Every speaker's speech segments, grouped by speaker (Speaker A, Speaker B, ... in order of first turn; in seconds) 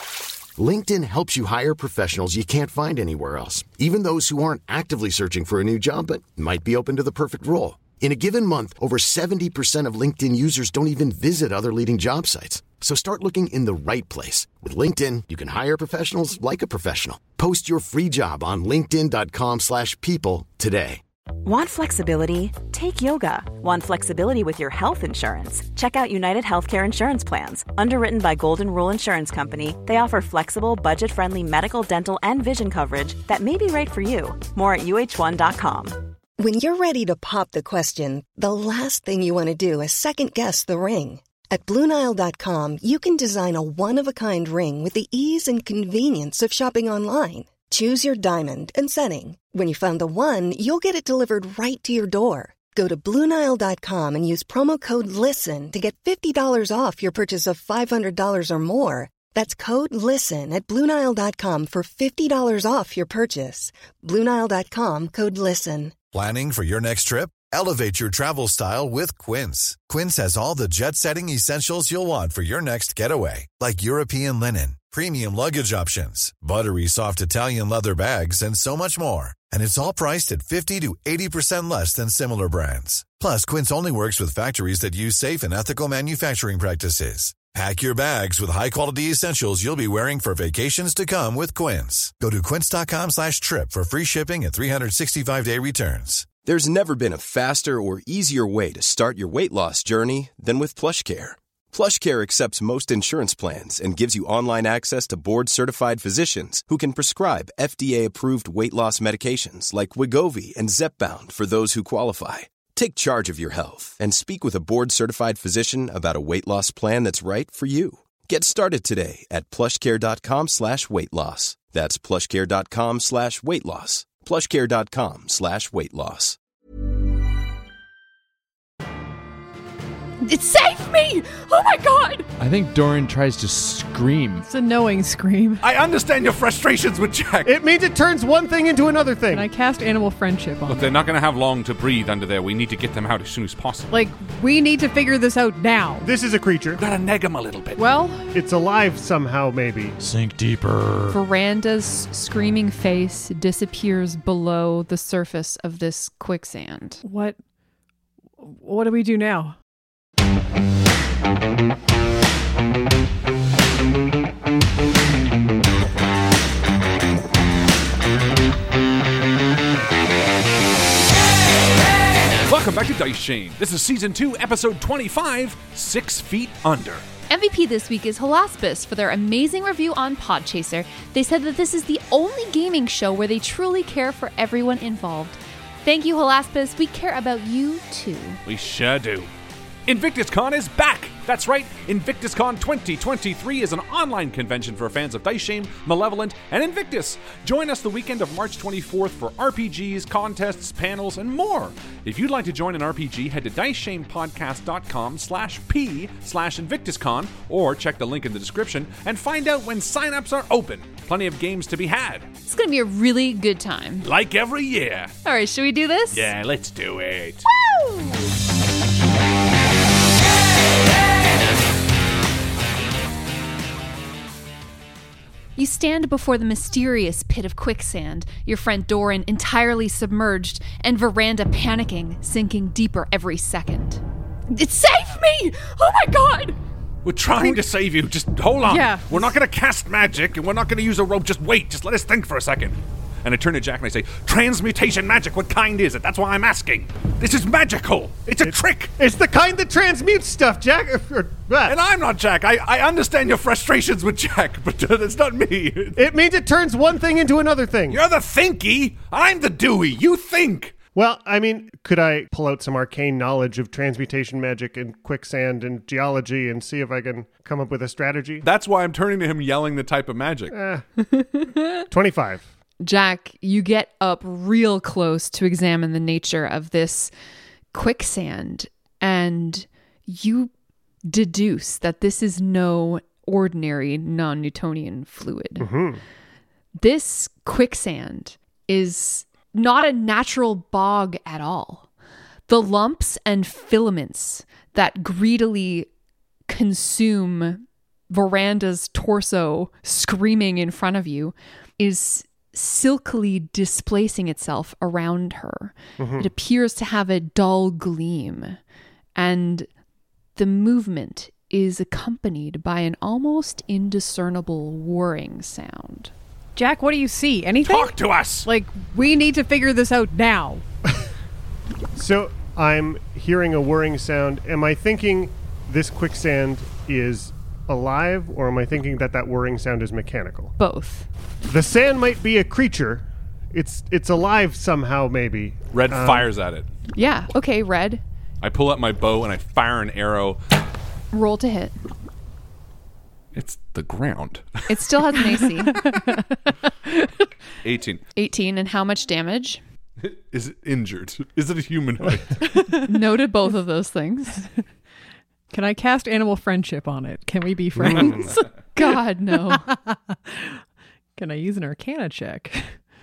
Speaker A: 0.6-21.0
Speaker B: 21.4-36.0
Speaker C: 36.4-65.9
Speaker D: 66.1-96.3
Speaker E: 96.4-126.4
Speaker F: 130.2-132.3, 151.1-157.0, 177.3-188.4, 212.5-214.1, 215.2-216.3, 217.5-218.3, 225.6-236.6, 271.1-271.9, 272.8-277.1, 277.7-280.5, 281.1-285.7, 286.8-291.9, 292.5-295.9, 296.5-308.6, 309.1-309.7, 310.4-316.1, 330.6-331.1, 336.9-338.0, 341.1-341.8, 344.7-345.9, 348.2-349.6, 352.9-354.4, 358.8-359.7
Speaker G: 132.4-134.4, 150.0-151.2
Speaker H: 134.4-135.6, 139.3-140.9, 143.9-146.1, 147.8-148.3, 157.0-157.4, 158.4-159.6, 238.7-239.3, 316.6-317.9, 318.4-320.6, 345.6-346.2, 352.4-352.9, 355.5-358.4, 359.3-360.6, 361.2-362.8
Speaker I: 135.6-137.6, 140.7-143.9, 146.8-147.8, 172.5-177.0, 188.5-189.3, 189.9-212.3, 214.0-215.1, 216.1-217.5, 237.0-248.9, 251.7-256.0, 257.9-260.7, 268.4-270.6, 317.6-318.5, 335.7-336.7, 338.4-340.4, 343.3-344.7, 347.6-348.0, 350.0-352.4
Speaker J: 137.4-139.5, 146.0-146.8, 148.3-150.0, 248.4-251.8, 256.0-258.0, 260.9-268.4, 270.5-270.9, 271.9-272.5, 285.6-286.0, 306.0-306.3, 322.0-330.5, 331.5-336.3, 357.8-358.3